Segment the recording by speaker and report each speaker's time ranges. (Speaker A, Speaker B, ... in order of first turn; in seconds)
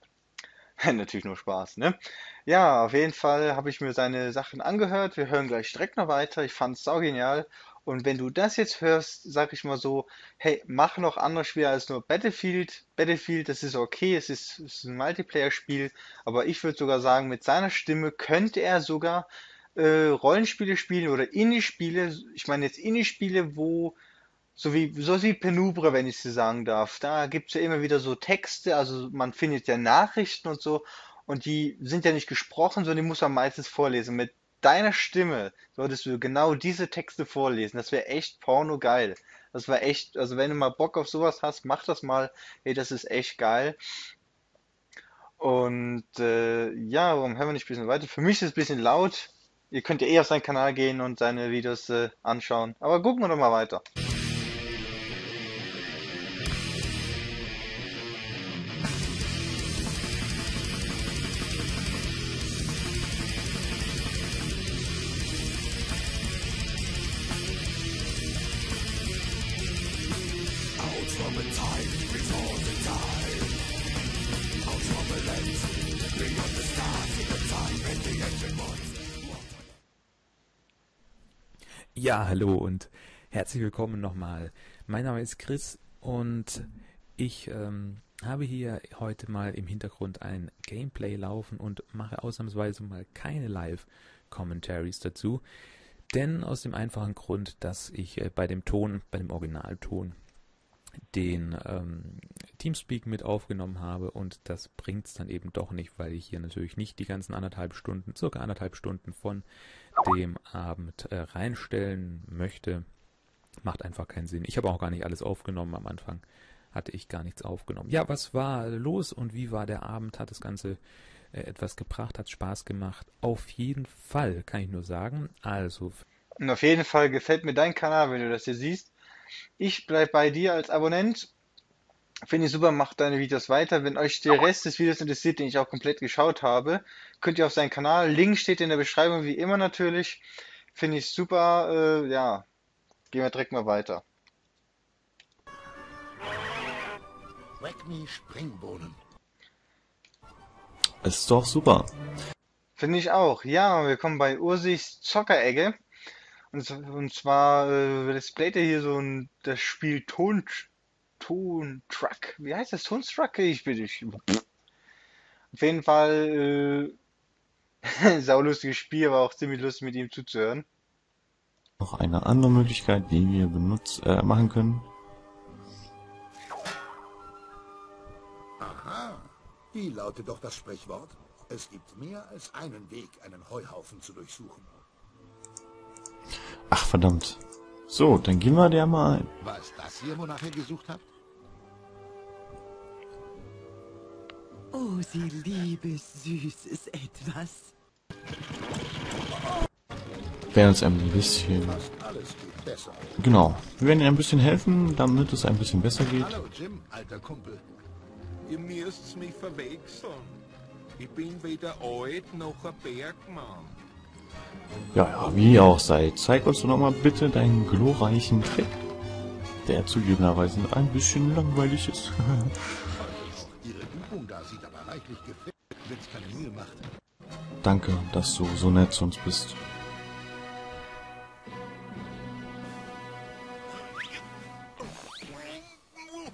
Speaker A: 0.8-24.0, 24.6-43.8, 45.4-53.8, 126.4-128.9, 129.6-131.3, 132.3-142.5, 143.1-144.0, 152.8-155.8, 156.5-164.4, 165.5-167.0, 167.8-170.7
Speaker B: 70.8-71.9, 74.7-75.2, 76.4-78.6, 147.6-149.0, 178.6-184.8, 189.4-191.1, 201.5-203.1, 206.1-207.6, 223.0-226.9
Speaker C: 82.0-95.4, 96.1-100.2, 101.1-109.5, 110.0-112.8, 113.6-120.8, 121.3-126.0
Speaker D: 151.0-151.9, 171.8-174.9, 186.7-189.3, 200.5-201.8, 203.2-206.3, 214.9-218.8, 219.6-222.5, 227.6-229.6
Speaker E: 194.7-197.7
Speaker F: 208.5-210.4, 211.0-213.8